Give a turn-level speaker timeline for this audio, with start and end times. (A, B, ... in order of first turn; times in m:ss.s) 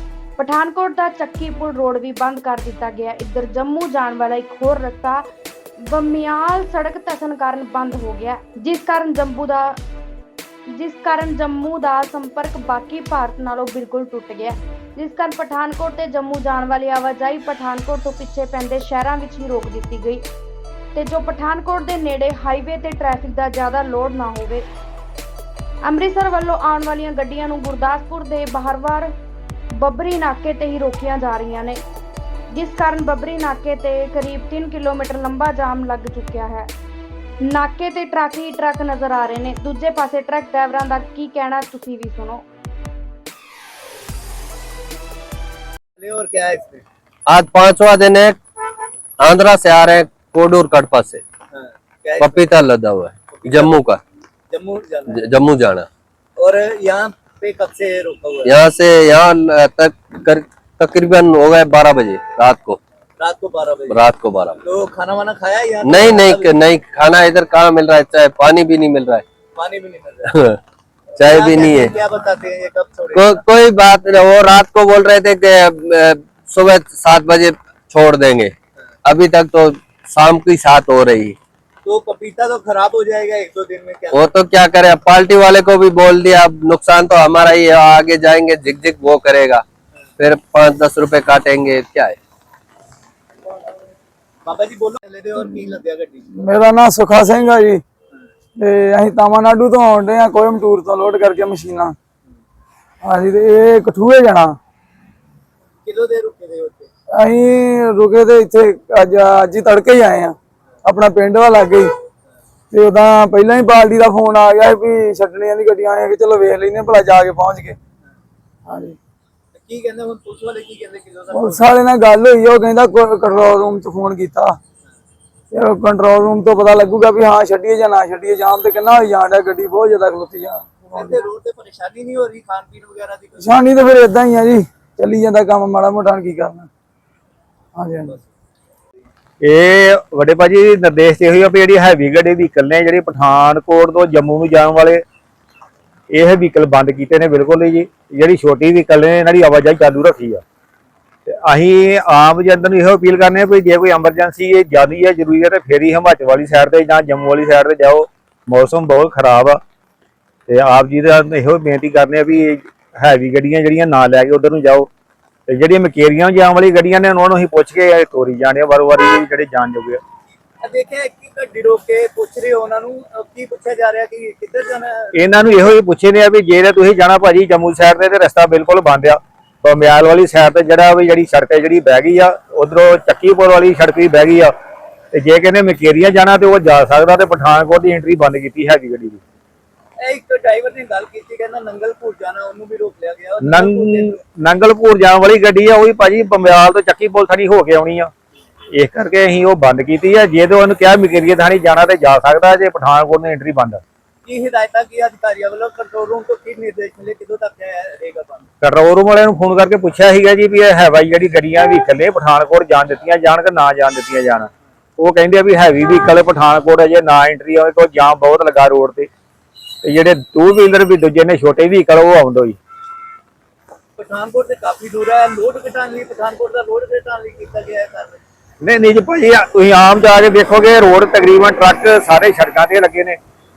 0:00.4-0:05.2 A
0:05.8-0:09.8 A
0:10.7-0:20.2 A
0:20.9-0:24.6 A
0:25.8-0:29.1 A
0:29.8-0:31.8 A
0:32.5-0:36.7 A
0:37.4-0:42.4 A
0:46.0-0:46.8 B
0:47.3-0:48.4 C
0:49.2-0:51.2 C
0:51.5-0:52.5 B
0:52.2-0:54.0 C
0:53.3-0:53.8 B
0:54.5-0:55.2 B
0:55.1-0:55.9 C
0:56.4-0:58.6 B
0:58.4-1:02.8 C
1:03.2-1:04.0 B
1:03.9-1:04.6 C
1:04.6-1:06.5 B
1:05.8-1:09.2 C
1:09.5-1:10.3 B
1:10.3-1:10.6 C
1:11.2-1:13.4 B
1:11.2-1:11.9 C
1:13.1-1:18.5 C
1:19.0-1:21.4 C
1:21.8-1:24.3 B
1:24.1-1:29.6 C
1:30.2-1:32.2 C
1:34.4-1:36.2 B
1:36.3-1:37.8 D
1:38.6-1:41.9 D
1:43.0-1:44.6 D
1:45.8-1:46.9 B
1:47.1-1:51.9 D
1:52.7-1:57.8 D
1:58.7-1:59.0 D
1:59.5-2:01.6 B
2:01.3-2:04.5 D
2:05.5-2:11.2 D
2:10.8-2:13.5 B
2:13.4-2:16.7 D
2:17.8-2:18.1 D
2:19.4-2:25.0 E
2:26.1-2:30.4 E
2:31.3-2:39.6 E
2:40.5-2:44.9 E
2:45.5-2:50.0 E
2:50.6-2:55.1 B
2:55.1-3:04.5 E
3:05.1-3:09.2 E
3:10.0-3:14.2 B
3:13.4-3:18.1 E
3:18.7-3:23.8 E
3:24.2-3:28.5 B
3:28.6-3:39.1 E
3:39.8-3:42.6 E
3:44.0-3:48.2 B
3:48.6-3:53.2 E